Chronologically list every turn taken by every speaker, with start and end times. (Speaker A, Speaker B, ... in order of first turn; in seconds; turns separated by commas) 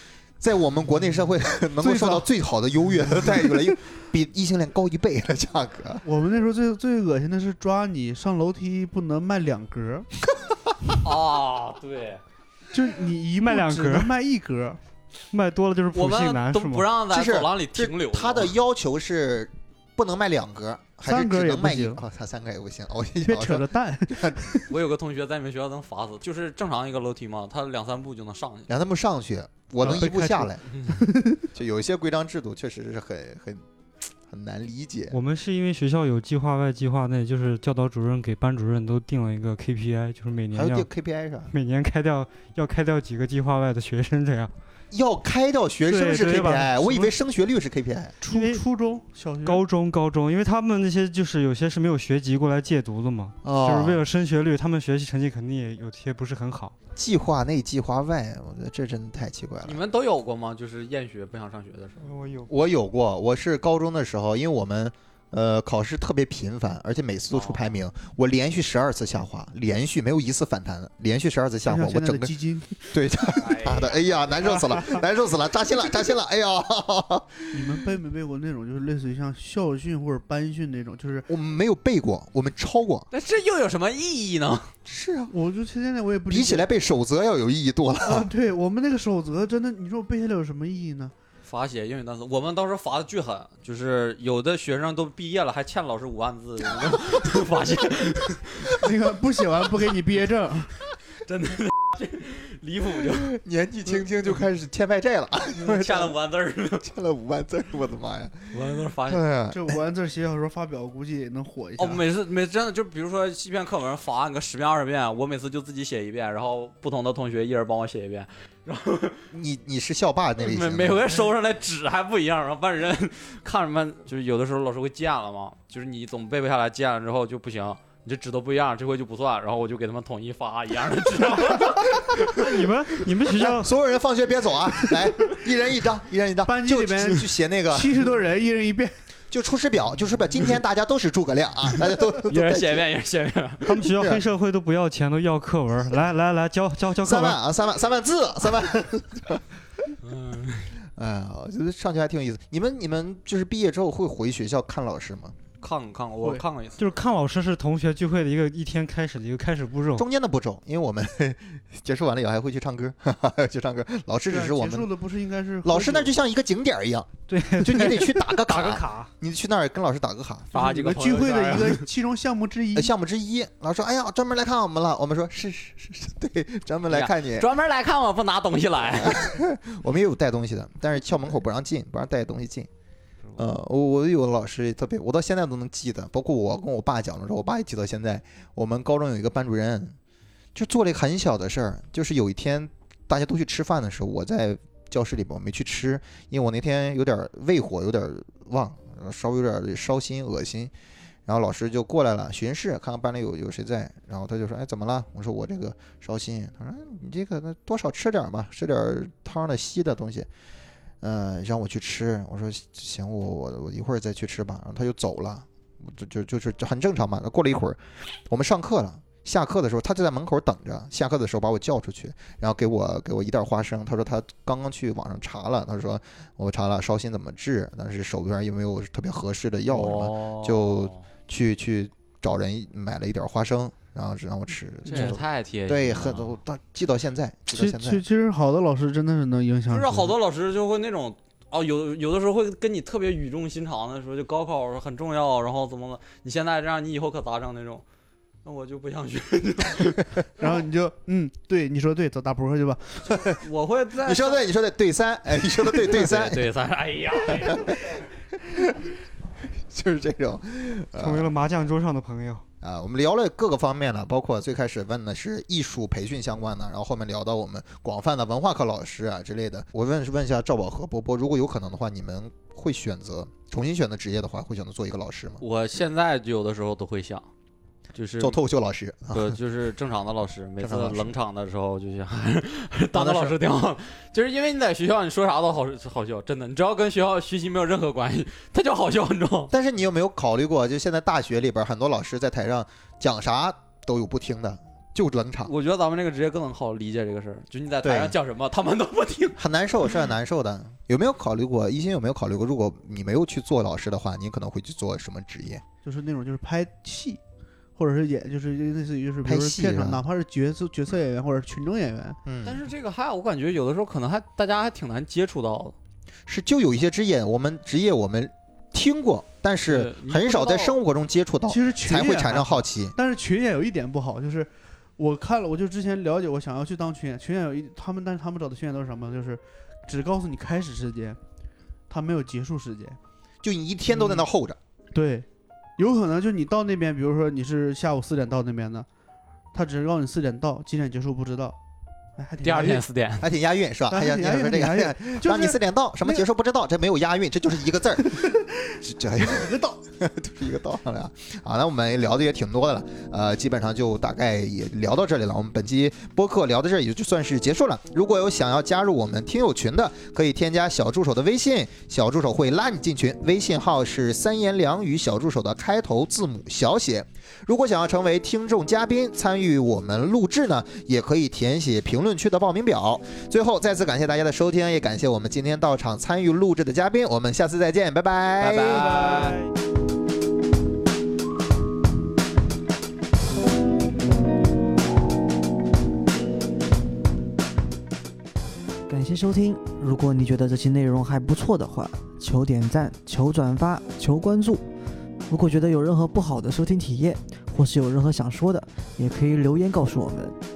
Speaker A: 0.4-6.0, Speaker B: 1.8-2.3, Speaker B: 3.1-3.6, Speaker B: 6.0-10.1, Speaker C: 11.0-12.2, Speaker B: 12.7-14.8, Speaker D: 13.4-14.1, Speaker D: 15.3-16.9, Speaker C: 15.9-18.5, Speaker A: 17.1-24.5, Speaker B: 21.1-22.0, Speaker B: 23.2-24.7, Speaker C: 24.7-28.7, Speaker A: 28.7-30.6, Speaker B: 29.8-31.4, Speaker C: 30.7-31.0, Speaker A: 31.5-33.6, Speaker A: 34.3-35.2, Speaker D: 35.1-40.9, Speaker A: 40.5-41.5, Speaker D: 41.5-44.5, Speaker A: 44.9-48.2, Speaker D: 45.9-47.1, Speaker B: 48.2-49.6, Speaker D: 48.3-48.6, Speaker D: 49.5-56.8, Speaker A: 53.4-54.0, Speaker A: 57.0-59.8, Speaker C: 59.6-62.1, Speaker D: 62.0-62.5, Speaker A: 62.5-72.3, Speaker C: 67.3-67.8, Speaker B: 71.7-72.8, Speaker A: 72.9-77.6, Speaker C: 73.3-74.8, Speaker B: 77.5-81.3, Speaker A: 81.3-83.1, Speaker C: 83.1-84.7, Speaker A: 84.9-85.3, Speaker B: 85.3-86.7, Speaker A: 86.3-88.3, Speaker B: 88.0-91.1, Speaker C: 91.5-98.7, Speaker B: 98.7-100.7, Speaker C: 101.2-103.3, Speaker A: 103.2-106.1, Speaker C: 105.6-106.9, Speaker A: 106.8-109.8, Speaker C: 108.5-109.2, Speaker B: 109.5-112.0, Speaker C: 111.8-119.2, Speaker A: 119.3-121.2, Speaker C: 120.4-132.1, Speaker D: 132.2-133.7, Speaker A: 133.2-137.9, Speaker B: 136.5-139.0, Speaker A: 139.3-142.8, Speaker C: 142.3-143.8, Speaker D: 143.6-147.4, Speaker A: 143.9-144.2, Speaker A: 147.0-149.4, Speaker C: 150.0-150.7, Speaker A: 150.9-155.4, Speaker C: 155.6-156.8, Speaker D: 156.8-160.1, Speaker A: 160.0-164.9, Speaker B: 164.3-166.1, Speaker A: 165.6-170.5, Speaker D: 167.3-169.1, Speaker C: 170.5-171.9, Speaker B: 170.5-172.9, Speaker A: 172.8-177.5, Speaker C: 176.9-179.2, Speaker A: 179.0-182.7, Speaker A: 183.4-190.0, Speaker A: 190.6-200.7, Speaker A: 201.3-210.3, Speaker A: 211.0-238.0, Speaker C: 229.7-231.0, Speaker C: 234.9-236.4, Speaker B: 237.5-240.1, Speaker C: 239.7-247.8, Speaker C: 248.4-250.6, Speaker B: 250.4-253.2, Speaker C: 253.3-254.5, Speaker A: 254.0-256.5, Speaker C: 255.7-257.8, Speaker A: 257.3-258.9, Speaker A: 259.5-261.3, Speaker D: 261.0-262.4, Speaker A: 262.6-275.4, Speaker C: 275.4-277.3, Speaker C: 277.9-278.4, Speaker A: 278.2-279.4, Speaker C: 279.1-289.5, Speaker A: 280.6-281.1, Speaker A: 282.9-283.4, Speaker A: 289.5-295.5, Speaker C: 295.4-299.4, Speaker A: 297.8-298.2, Speaker A: 299.4-305.6, Speaker B: 305.8-307.2, Speaker B: 307.8-312.2, Speaker A: 309.2-310.0, Speaker A: 312.3-312.6, Speaker C: 312.4-315.8, Speaker A: 316.3-322.9, Speaker C: 319.7-320.8, Speaker B: 321.5-331.2, Speaker B: 331.9-333.0, Speaker A: 333.4-334.6, Speaker B: 333.9-334.2, Speaker B: 334.9-335.3, Speaker B: 335.8-338.9, Speaker B: 339.5-341.6, Speaker B: 342.2-342.8, Speaker C: 342.4-343.3, Speaker A: 343.2-348.3, Speaker B: 343.9-346.2, Speaker B: 348.3-349.8, Speaker A: 348.8-379.0, Speaker C: 378.4-379.4, Speaker E: 388.9-394.7, Speaker E: 395.3-400.4